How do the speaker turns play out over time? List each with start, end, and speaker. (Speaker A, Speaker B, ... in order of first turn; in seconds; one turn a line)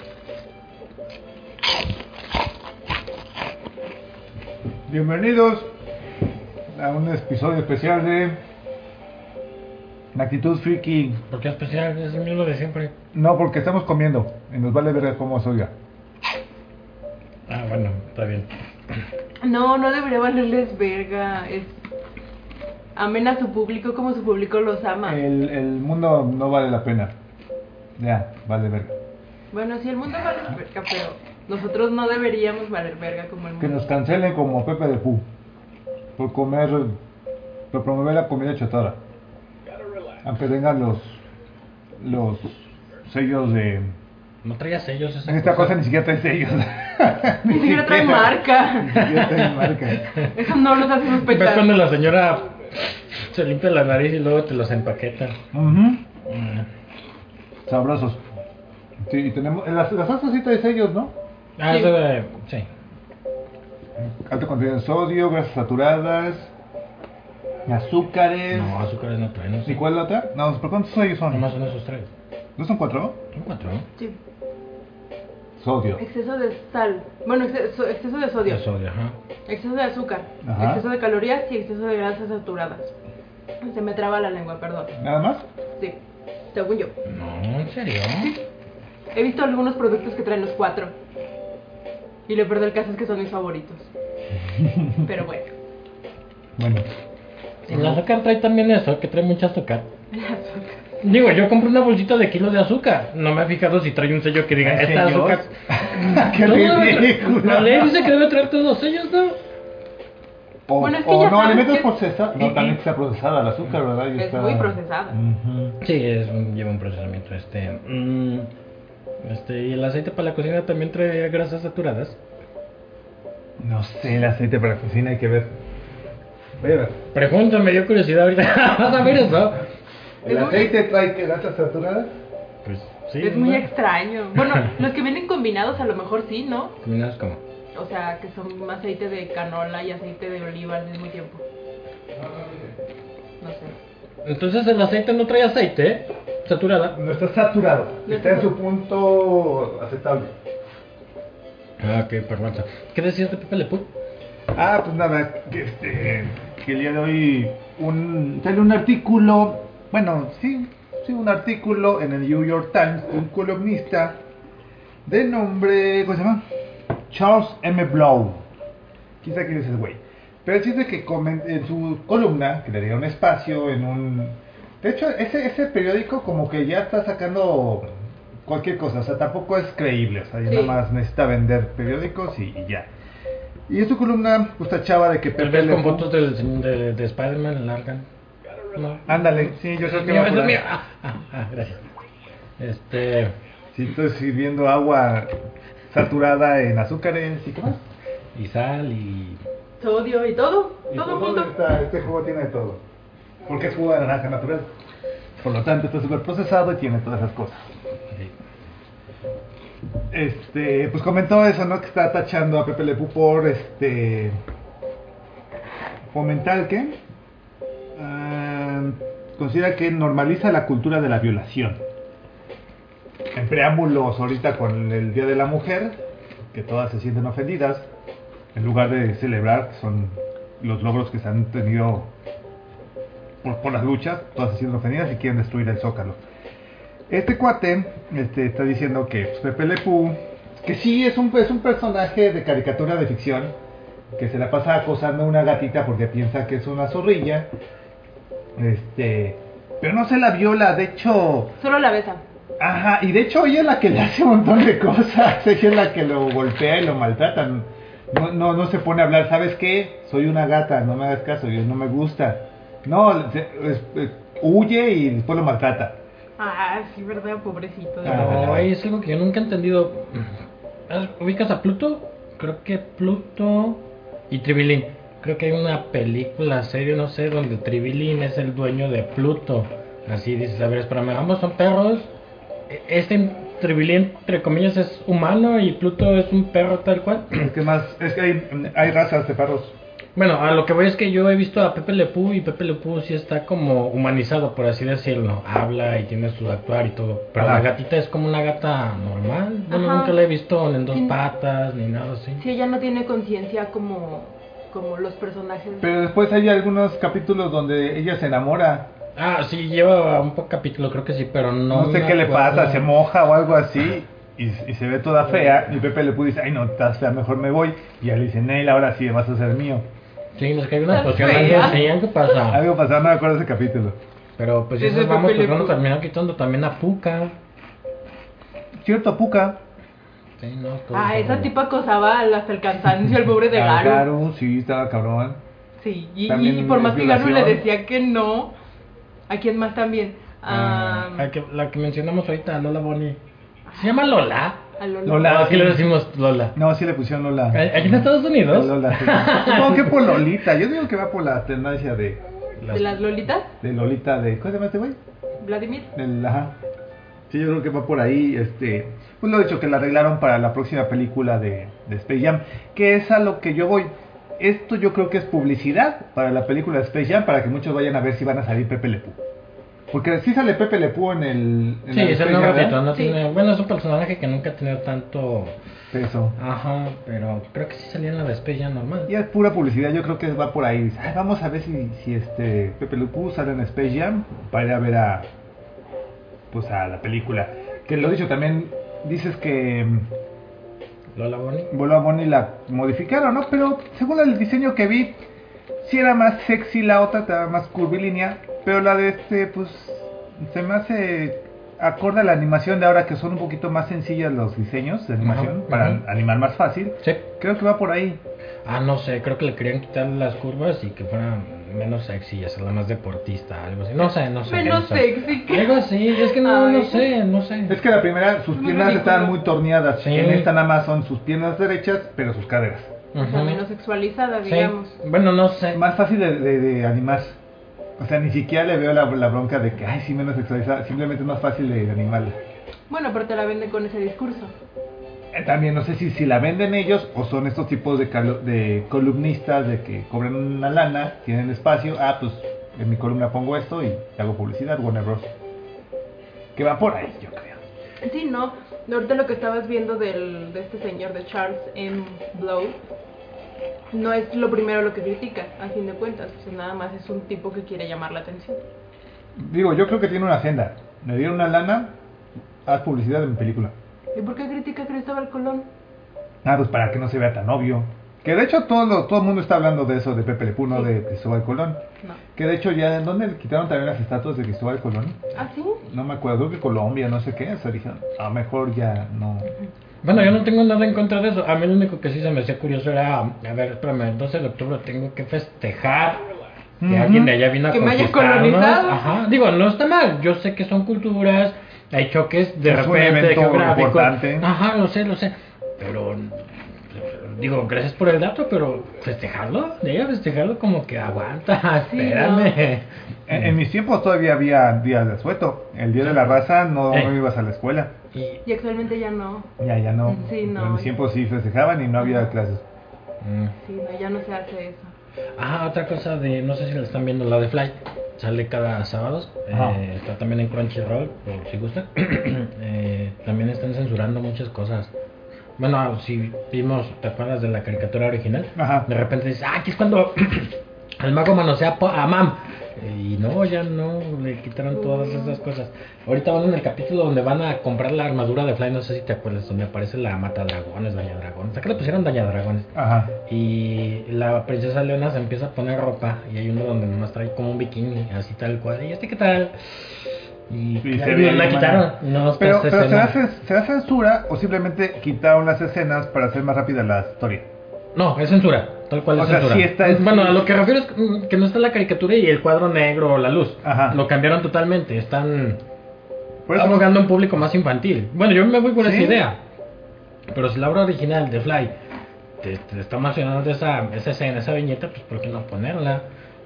Speaker A: 4.9-5.7
Speaker A: 6.7-8.4
Speaker A: 10.1-11.2
Speaker B: 11.3-12.9
Speaker A: 13.1-15.7
Speaker B: 17.5-18.5
Speaker C: 19.4-21.9
Speaker C: 22.9-25.2
Speaker A: 25.1-27.1
Speaker A: 28.0-28.9
Speaker C: 29.5-33.8
Speaker A: 33.6-35.2
Speaker A: 36.2-37.0
Speaker A: 37.7-39.0
Speaker A: 40.2-41.2
Speaker A: 42.0-43.9
Speaker B: 44.4-45.8
Speaker A: 45.2-50.0
Speaker C: 47.5-49.0
Speaker B: 49.0-50.3
Speaker C: 50.2-51.7
Speaker B: 51.1-55.4
Speaker A: 55.5-56.0
Speaker B: 56.2-56.7
Speaker A: 57.6-58.2
Speaker A: 59.0-61.1
Speaker B: 61.6-62.7
Speaker C: 61.7-61.9
Speaker A: 64.0-66.5
Speaker A: 67.7-68.8
Speaker B: 68.5-69.8
Speaker A: 69.7-71.5
Speaker B: 71.3-72.1
Speaker A: 72.6-73.2
Speaker B: 73.3-73.9
Speaker A: 75.6-76.0
Speaker C: 76.0-78.6
Speaker B: 78.5-79.2
Speaker C: 79.5-82.9
Speaker A: 80.4-80.8
Speaker C: 83.6-84.9
Speaker A: 85.0-85.4
Speaker C: 86.5-86.9
Speaker B: 87.0-88.3
Speaker C: 89.1-90.9
Speaker C: 92.3-93.9
Speaker A: 94.3-95.1
Speaker C: 95.0-95.5
Speaker A: 96.6-96.9
Speaker B: 97.7-99.9
Speaker A: 97.7-98.0
Speaker C: 100.1-100.8
Speaker B: 101.0-109.4
Speaker A: 104.6-108.1
Speaker A: 110.7-115.8
Speaker C: 110.8-112.8
Speaker C: 114.1-115.2
Speaker B: 115.8-118.5
Speaker B: 119.2-122.2
Speaker A: 123.6-125.5
Speaker A: 126.6-127.0
Speaker B: 127.1-129.6
Speaker C: 130.2-130.7
Speaker A: 130.2-132.2
Speaker B: 132.6-133.7
Speaker C: 133.2-136.7
Speaker B: 136.8-137.4
Speaker C: 137.7-141.4
Speaker A: 142.1-142.7
Speaker C: 143.4-143.7
Speaker B: 144.2-147.0
Speaker A: 146.9-150.3
Speaker C: 148.1-148.5
Speaker B: 151.8-153.9
Speaker A: 154.5-164.2
Speaker A: 165.1-166.4
Speaker A: 167.1-168.4
Speaker A: 169.2-177.9
Speaker A: 178.4-182.9
Speaker C: 180.4-180.8
Speaker A: 183.7-186.1
Speaker B: 185.3-188.1
Speaker B: 188.7-191.8
Speaker A: 189.1-190.6
Speaker B: 192.6-193.3
Speaker A: 193.7-195.3
Speaker A: 195.9-197.8
Speaker B: 198.3-199.4
Speaker C: 199.8-201.5
Speaker A: 200.9-202.8
Speaker A: 203.5-204.7
Speaker A: 205.4-207.7
Speaker A: 210.1-214.4
Speaker A: 216.1-217.0
Speaker A: 217.9-221.8
Speaker A: 223.3-226.0
Speaker A: 226.5-227.8
Speaker A: 228.5-232.1
Speaker A: 233.4-236.2
Speaker A: 237.1-243.5
Speaker A: 244.2-247.5
Speaker A: 248.6-251.5
Speaker C: 251.6-252.2
Speaker A: 252.6-266.0
Speaker C: 266.4-268.5
Speaker A: 268.0-268.7
Speaker B: 268.0-270.4
Speaker B: 270.9-282.1
Speaker B: 282.7-287.5
Speaker A: 287.3-289.8
Speaker B: 290.1-302.4
Speaker A: 297.4-297.7
Speaker C: 299.7-300.1
Speaker C: 302.4-305.9
Speaker A: 305.8-308.9
Speaker B: 309.1-312.9
Speaker A: 311.7-319.9
Speaker B: 320.4-322.6
Speaker C: 320.9-322.0
Speaker A: 321.2-321.7
Speaker A: 322.4-324.0
Speaker B: 324.4-327.4
Speaker C: 324.8-325.8
Speaker A: 328.8-329.6
Speaker B: 330.4-331.5
Speaker C: 330.9-334.1
Speaker A: 333.4-335.4
Speaker C: 335.8-338.5
Speaker A: 336.3-337.6
Speaker C: 339.3-341.3
Speaker B: 340.5-343.2
Speaker C: 343.7-344.1
Speaker B: 343.7-346.6
Speaker C: 344.8-345.8
Speaker A: 345.0-345.9
Speaker A: 346.5-352.2
Speaker B: 347.5-350.2
Speaker B: 352.6-352.9
Speaker C: 352.7-353.5
Speaker A: 353.6-355.0
Speaker C: 355.4-355.9
Speaker A: 355.9-356.5
Speaker A: 357.3-369.2
Speaker A: 369.9-372.8
Speaker B: 371.9-375.6
Speaker A: 375.9-376.4
Speaker B: 376.4-379.1
Speaker A: 379.1-385.3
Speaker A: 386.5-390.1
Speaker B: 391.1-391.7
Speaker A: 391.7-395.1
Speaker A: 395.8-408.2
Speaker B: 405.2-406.0
Speaker B: 408.6-417.8
Speaker C: 414.4-417.1
Speaker A: 417.7-422.9
Speaker C: 418.5-419.4
Speaker B: 420.0-420.5
Speaker B: 423.1-423.6
Speaker C: 423.2-425.0
Speaker B: 424.4-425.8
Speaker A: 425.7-427.4
Speaker A: 428.0-432.4
Speaker C: 432.9-434.5
Speaker A: 435.3-445.3
Speaker A: 446.6-447.6
Speaker C: 448.0-452.8
Speaker C: 453.9-458.6
Speaker A: 459.4-461.9
Speaker A: 462.6-463.7
Speaker C: 464.1-465.7
Speaker A: 466.4-471.8
Speaker A: 472.3-475.2
Speaker C: 475.3-475.8
Speaker A: 475.9-479.5
Speaker B: 480.0-486.3
Speaker A: 486.8-487.4
Speaker B: 486.8-503.5
Speaker C: 487.7-489.1
Speaker A: 492.6-494.5
Speaker C: 501.8-502.6
Speaker A: 503.3-507.9
Speaker B: 506.0-506.3
Speaker B: 506.9-507.1
Speaker B: 508.1-508.4
Speaker C: 508.4-509.5
Speaker A: 509.6-512.6
Speaker C: 510.0-510.9
Speaker B: 513.2-513.5
Speaker C: 513.6-514.9
Speaker B: 515.4-524.9
Speaker A: 519.5-519.8
Speaker B: 525.6-542.7
Speaker A: 528.5-528.9
Speaker C: 534.7-535.4
Speaker A: 542.7-543.1
Speaker B: 543.2-553.2
Speaker A: 550.8-557.5
Speaker B: 557.9-565.6
Speaker A: 559.1-560.5
Speaker A: 563.6-564.0
Speaker A: 566.5-567.0
Speaker B: 566.5-569.4
Speaker A: 568.8-569.3
Speaker B: 570.3-571.7
Speaker B: 572.4-576.0